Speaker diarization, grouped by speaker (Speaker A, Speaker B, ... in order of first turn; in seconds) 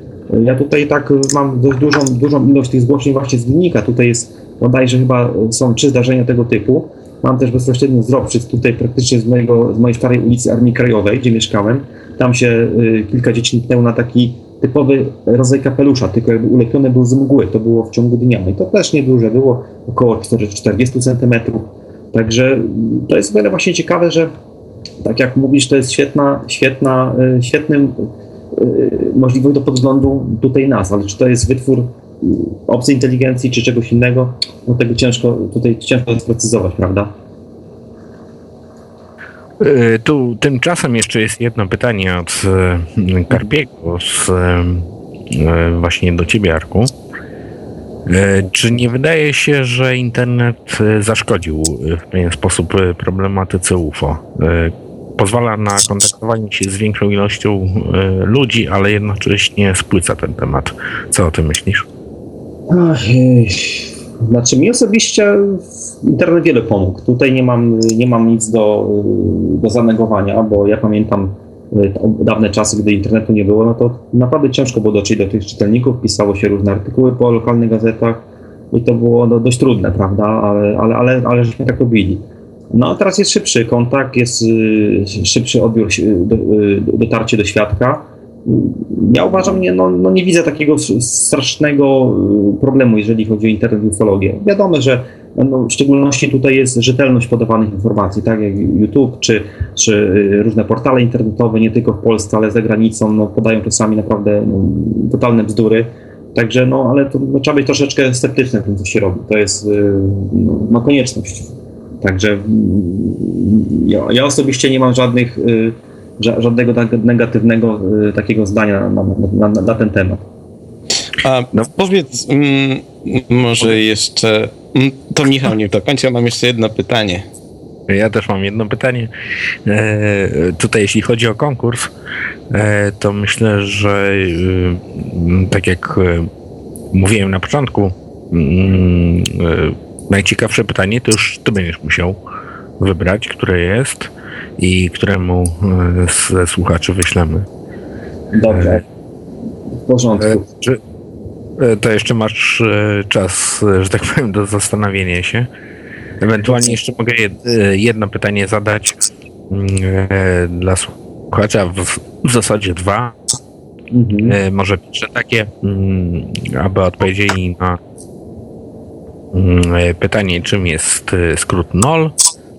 Speaker A: 0.3-24.3, 25.0-37.1, 62.7-120.2, 148.3-148.8, 149.9-150.5, 163.9-164.4
Speaker B: 39.6-46.9, 48.1-61.9, 127.9-129.1, 129.7-131.9, 132.5-136.3, 136.9-142.2, 142.8-147.5, 150.3-150.8, 151.6-155.5, 156.2-163.2, 164.3-167.8, 169.3-172.2
Speaker C: 121.2-127.2